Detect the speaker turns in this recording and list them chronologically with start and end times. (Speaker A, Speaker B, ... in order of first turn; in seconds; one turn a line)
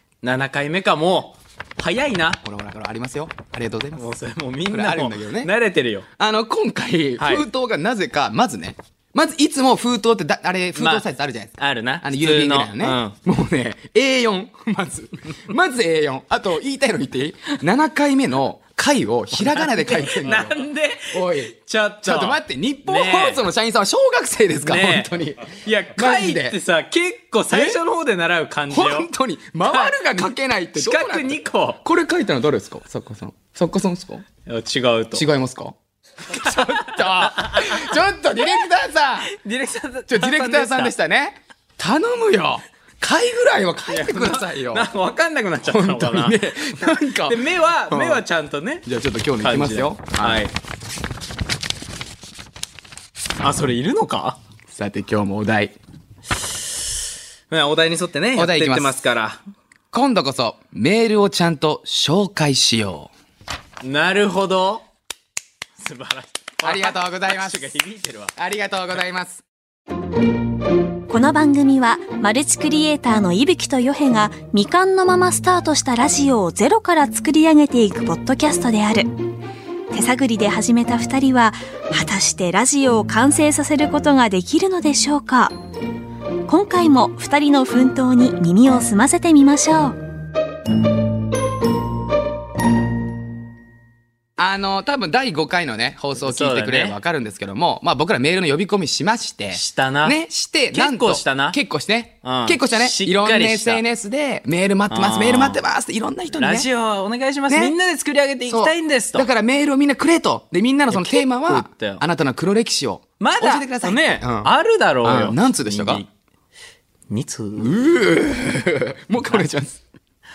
Speaker A: 0.2-2.4
Speaker B: 2.4-4.1
Speaker A: 4.0-6.1
Speaker B: 4.7-5.5
Speaker B: 6.2-20.6
Speaker A: 7.2-7.5
Speaker A: 10.8-11.0
Speaker A: 11.6-13.2
Speaker A: 19.3-23.4
Speaker B: 21.1-26.6
Speaker A: 24.6-29.1
Speaker B: 27.5-27.8
Speaker B: 28.7-34.2
Speaker A: 29.6-31.8
Speaker A: 34.4-35.2
Speaker B: 35.1-35.7
Speaker B: 36.3-39.3
Speaker A: 36.3-38.0
Speaker A: 39.2-40.9
Speaker B: 40.1-44.9
Speaker A: 43.9-48.9
Speaker B: 45.6-48.2
Speaker B: 48.8-50.4
Speaker A: 49.4-50.5
Speaker A: 53.4-54.4
Speaker B: 54.7-55.7
Speaker A: 57.5-59.4
Speaker B: 58.3-59.0
Speaker B: 59.9-63.1
Speaker A: 63.8-64.8
Speaker A: 65.8-68.3
Speaker B: 66.6-67.6
Speaker B: 68.3-69.4
Speaker C: 71.1-79.1
Speaker C: 79.9-85.5
Speaker C: 86.5-90.0
Speaker B: 94.4-106.7
Speaker A: 96.2-97.0
Speaker A: 99.5-100.2
Speaker A: 100.7-101.6
Speaker A: 102.2-103.8
Speaker A: 104.9-105.6
Speaker A: 106.3-109.3
Speaker B: 107.5-107.8
Speaker B: 108.5-114.5
Speaker A: 110.9-112.0
Speaker A: 113.2-116.1
Speaker B: 115.0-116.0
Speaker A: 117.1-117.7
Speaker B: 117.6-119.8